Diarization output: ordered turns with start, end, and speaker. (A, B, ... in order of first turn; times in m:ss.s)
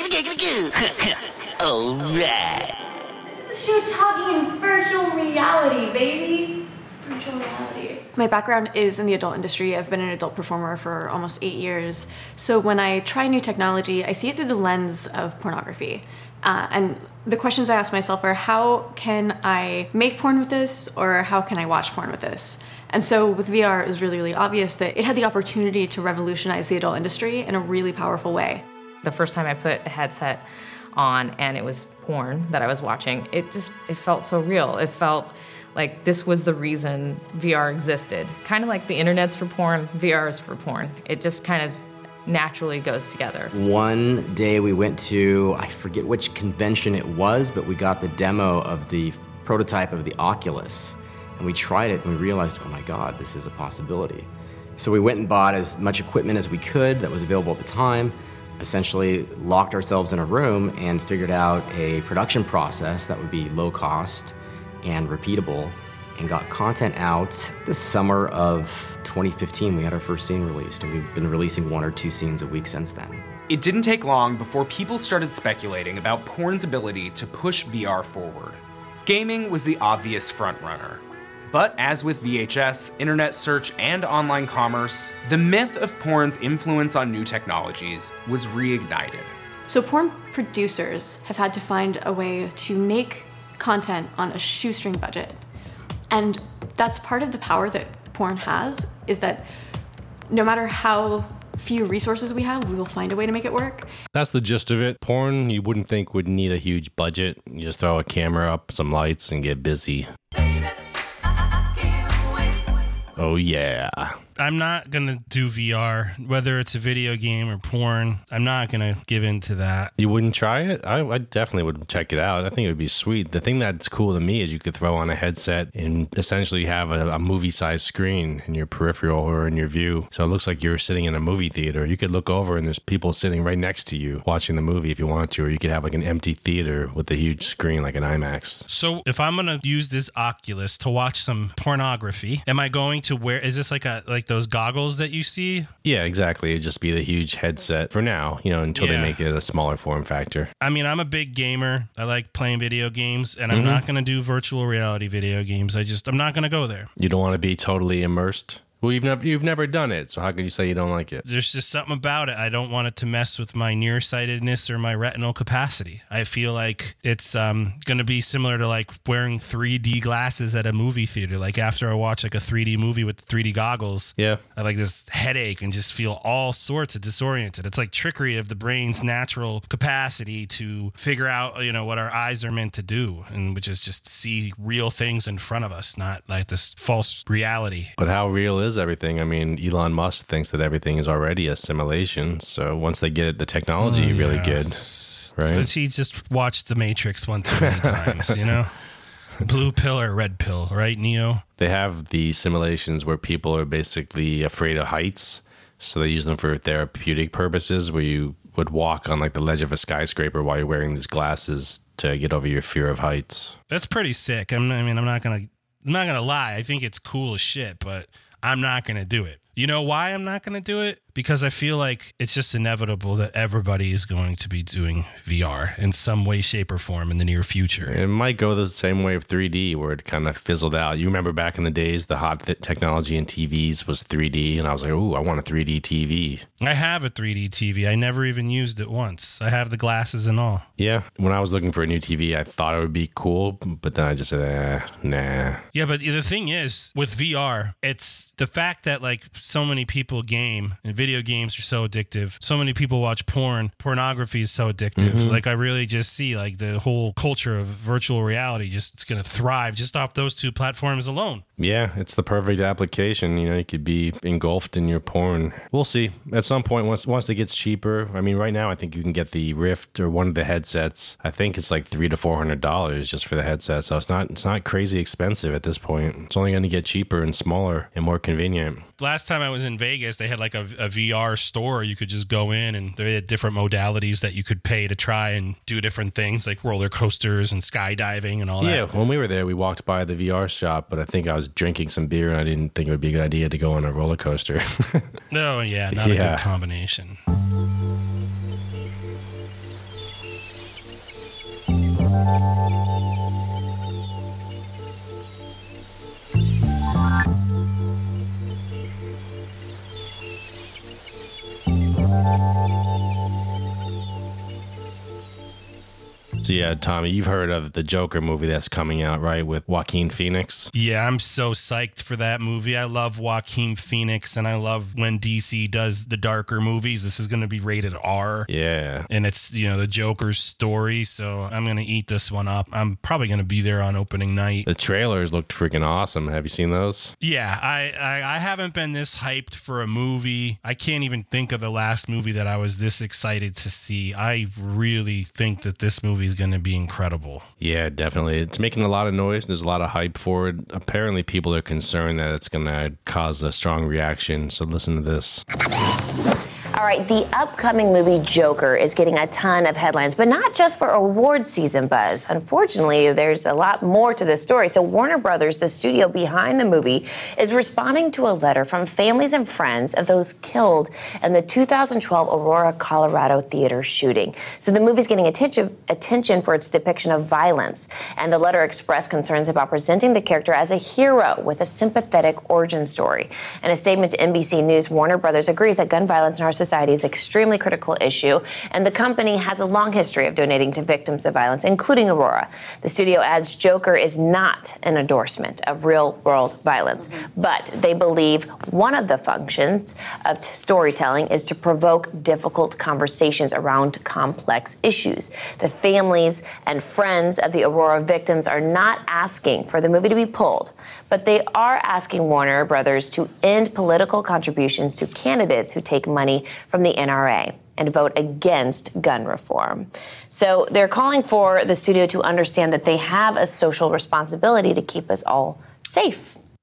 0:03.2-0:28.6 A
0:29.0-0:30.4 B
0:30.9-0:43.5 B
0:43.5-1:13.2 C
1:13.5-1:29.3 D
1:29.7-1:35.4 A
1:36.1-1:39.5 A
1:40.3-1:43.9 A
1:44.1-1:50.1 E
1:53.2-1:54.2 E
1:54.4-1:59.9 F
2:00.0-2:18.7 E
2:18.7-2:25.7 F
2:25.8-2:30.5 E
2:28.7-2:29.2 F
2:30.6-2:36.9 F
2:33.5-2:33.8 E
2:37.0-2:41.2 E
2:41.2-3:07.9 F
2:54.2-2:54.4 E
3:08.0-3:15.7 E
3:13.8-3:18.7 F
3:17.5-3:18.4 E
3:19.4-3:21.4 F
3:21.6-3:33.6 E
3:33.7-3:48.0 F
3:47.8-3:56.4 E
3:56.6-4:00.6 F
4:00.8-4:05.6 E
4:05.7-4:21.4 F
4:15.0-4:15.4 E
4:21.6-4:38.8 E
4:39.0-4:48.8 F
4:48.6-4:55.1 E
4:55.3-4:57.2 F
4:55.9-4:56.4 E
5:16.4-5:20.7 E
5:20.7-5:28.5 F
5:28.5-5:29.1 E
5:29.1-5:34.6 F
5:34.6-5:37.1 E
5:37.2-5:47.5 F
5:47.6-5:55.4 E
5:56.8-7:06.4 G